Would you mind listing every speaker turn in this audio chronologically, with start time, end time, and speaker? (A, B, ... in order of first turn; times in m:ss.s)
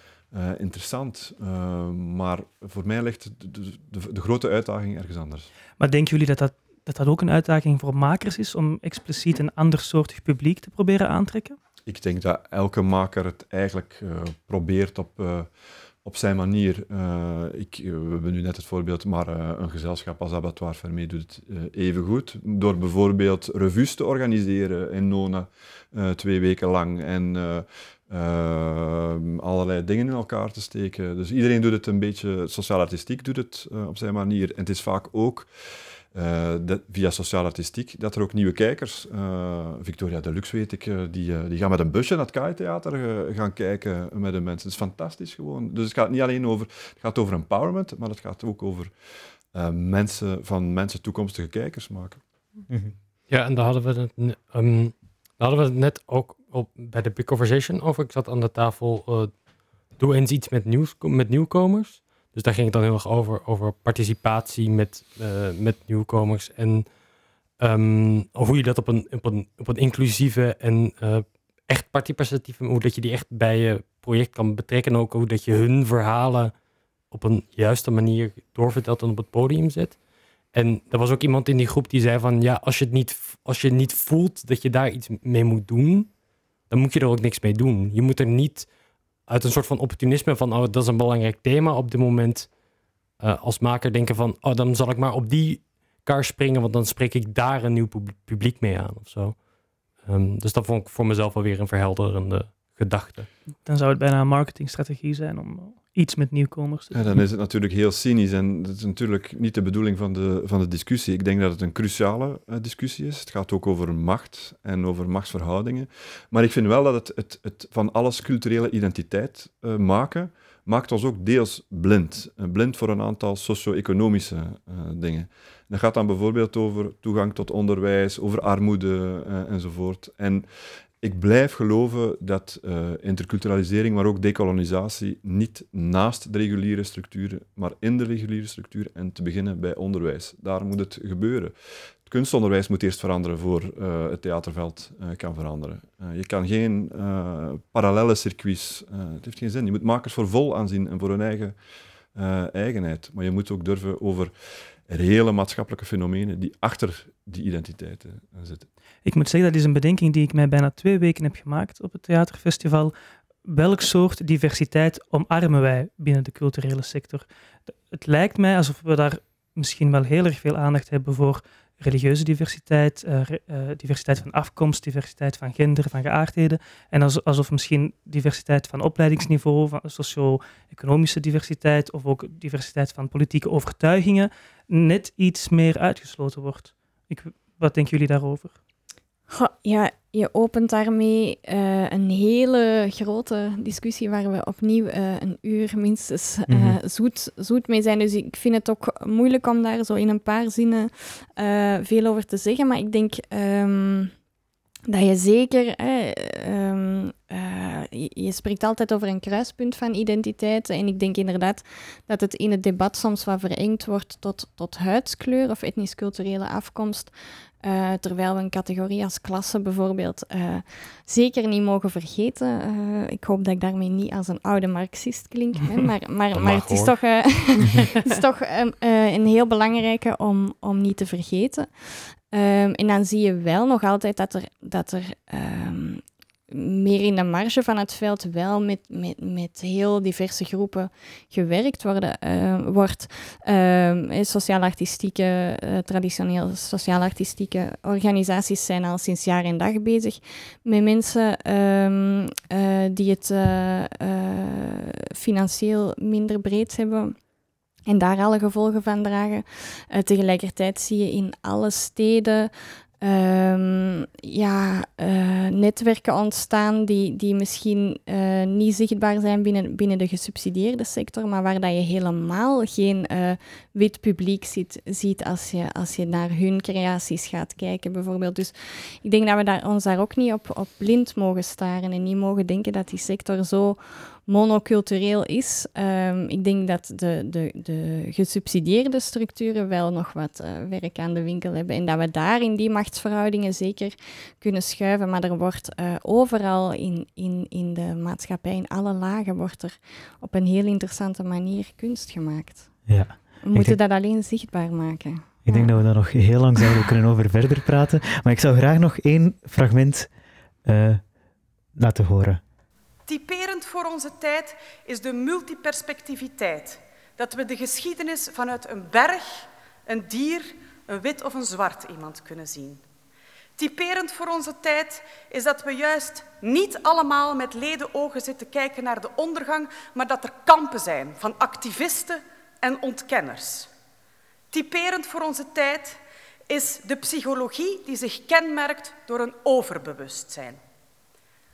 0:00.3-0:05.5 A
0:05.8-0:11.6 B
0:11.8-0:15.5 A
0:16.0-0:35.5 A
0:36.1-0:48.9 A
0:49.5-0:52.2 A
0:52.7-0:52.9 C
0:53.3-0:59.4 D
0:59.9-1:07.0 D
1:07.6-1:16.6 D
1:17.1-1:20.0 D
1:20.5-1:26.1 D
1:26.7-1:28.7 D
1:29.3-1:32.5 D
1:33.2-1:43.3 D
1:43.6-1:47.2 B
1:46.9-2:10.4 A
2:11.0-2:21.5 A
2:22.0-2:31.6 A
2:32.1-2:34.3 A
2:34.9-2:38.7 A
2:39.0-2:42.9 B
2:43.4-2:47.2 B
2:47.9-3:08.6 B
3:09.3-3:24.1 E
3:16.5-3:16.8 C
3:24.9-3:37.1 E
3:37.6-4:17.2 E
3:46.3-3:47.0 D
4:17.9-5:02.8 E
5:02.9-5:03.8 C
5:03.4-5:05.8 E
5:05.4-5:10.1 C
5:10.6-5:11.0 C
5:11.7-5:12.4 C
5:13.1-5:22.8 F
5:23.6-5:33.7 F
5:34.5-5:40.6 F